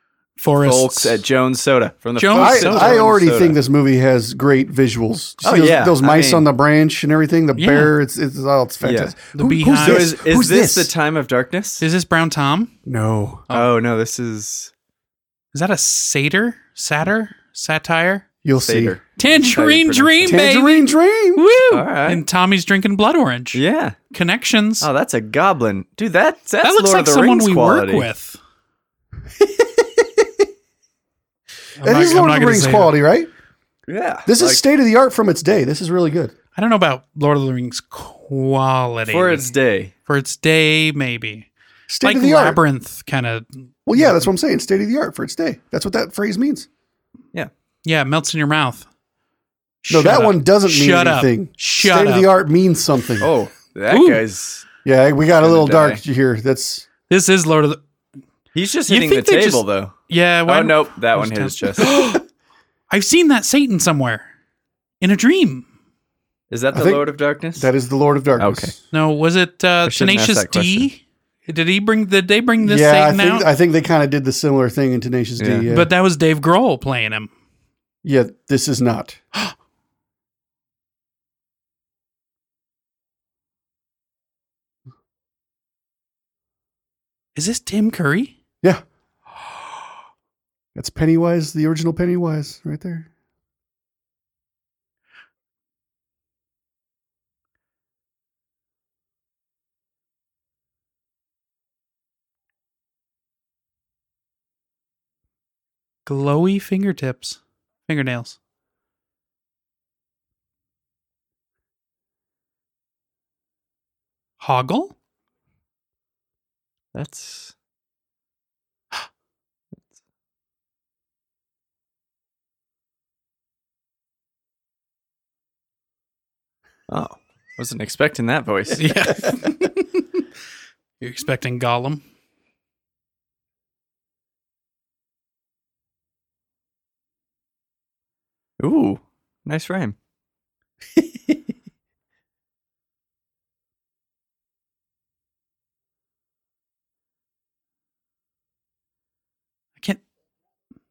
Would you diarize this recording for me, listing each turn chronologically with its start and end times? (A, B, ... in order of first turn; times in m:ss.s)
0:00.4-0:01.2 A
0:00.6-0:03.6 B
0:02.2-0:03.0 A
0:02.3-0:10.9 C
0:05.4-0:06.5 B
0:07.6-0:07.9 A
0:08.8-0:09.1 B
0:09.3-0:10.1 A
0:09.8-0:11.8 B
0:11.8-0:12.7 A
0:12.8-0:13.5 C
0:13.5-0:14.7 B
0:15.5-0:18.2 A
0:18.4-0:19.0 C
0:18.6-0:20.4 B
0:19.2-0:24.9 A
0:20.2-0:21.4 C
0:21.7-0:22.2 B
0:23.5-0:24.0 B
0:24.8-0:28.1 B
0:26.6-0:28.4 A
0:29.5-0:30.2 C
0:31.8-0:32.9 A
0:31.8-0:33.3 C
0:33.9-0:34.6 B
0:34.2-0:36.3 C
0:36.6-0:39.5 A
0:39.1-0:39.9 B
0:40.1-0:41.5 A
0:41.9-0:42.6 C
0:42.0-0:44.3 A
0:43.8-0:46.7 C
0:47.8-0:48.9 A
0:49.8-0:52.3 A
0:49.9-0:53.3 C
0:53.2-0:54.7 B
0:53.9-0:54.2 A
0:54.8-0:56.8 C
0:55.4-0:56.0 B
0:57.1-0:57.8 A
0:58.5-1:01.9 B
0:58.9-1:02.2 A
1:02.9-1:04.2 A
1:05.0-1:05.6 A
1:06.5-1:07.7 B
1:06.7-1:08.7 C
1:08.4-1:08.8 B
1:08.9-1:13.5 A
1:09.8-1:10.9 B
1:12.6-1:15.9 C
1:15.4-1:15.6 B
1:15.7-1:17.3 A
1:18.0-1:19.2 C
1:27.3-1:28.4 A
1:30.7-1:33.1 C
1:46.0-1:48.4 A
1:54.4-1:54.9 A
1:56.9-1:57.5 B
2:06.9-2:09.4 B
2:08.7-2:10.0 A
2:11.0-2:12.0 A
2:18.6-2:20.0 B